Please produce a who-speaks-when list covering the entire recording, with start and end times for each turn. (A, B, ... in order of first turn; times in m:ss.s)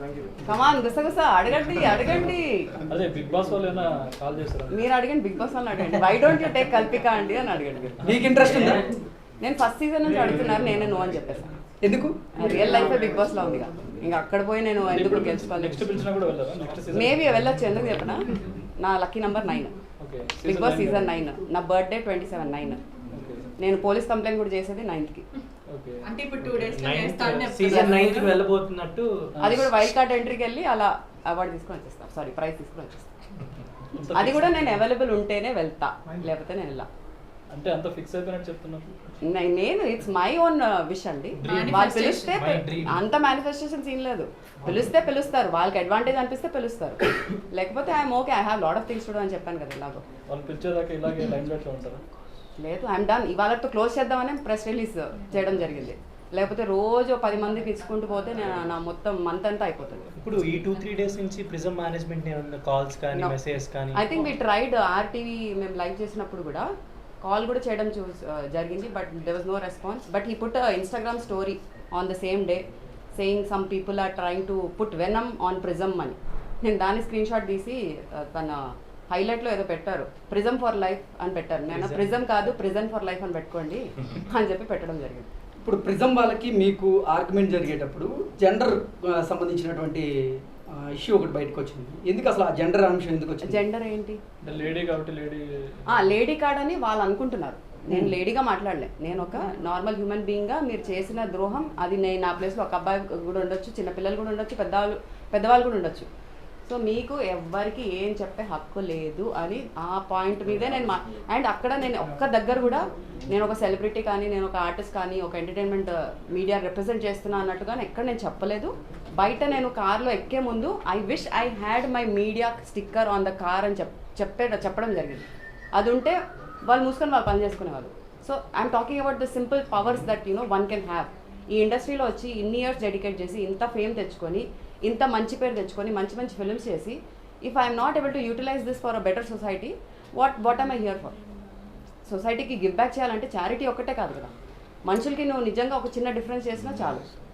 0:00.4-0:02.7 A
0:02.9-0:04.8 B
0:04.7-0:08.1 A
0:08.0-0:08.8 C
0:09.4-0:11.5 A
0:11.8-0:12.2 C
0:12.4-0:15.9 A
0:14.9-0:17.5 B
0:16.9-0:18.2 A
0:18.8-0:19.7 A
0:20.0-0:21.1 B
0:20.4-0:22.8 A
0:23.1-0:23.5 B
0:23.6-0:25.2 A
0:25.7-0:26.1 B
0:26.0-0:28.4 D
0:26.7-0:29.1 E
0:29.4-0:29.6 B
0:29.4-0:33.1 A
0:33.9-0:34.8 B
0:34.1-0:36.9 A
0:37.5-0:38.9 B
0:39.2-0:50.0 A
0:41.4-0:43.0 E
0:41.4-0:42.4 D
0:50.3-0:52.0 B
0:52.6-1:00.1 A
1:00.2-1:04.0 E
1:03.9-1:06.7 A
1:07.2-1:25.3 A
1:21.7-1:22.1 E
1:25.6-1:33.6 C
1:33.4-1:34.2 A
1:34.4-1:36.1 B
1:35.9-1:46.1 A
1:46.7-2:21.1 A
2:22.1-2:24.3 A
2:24.9-2:27.0 A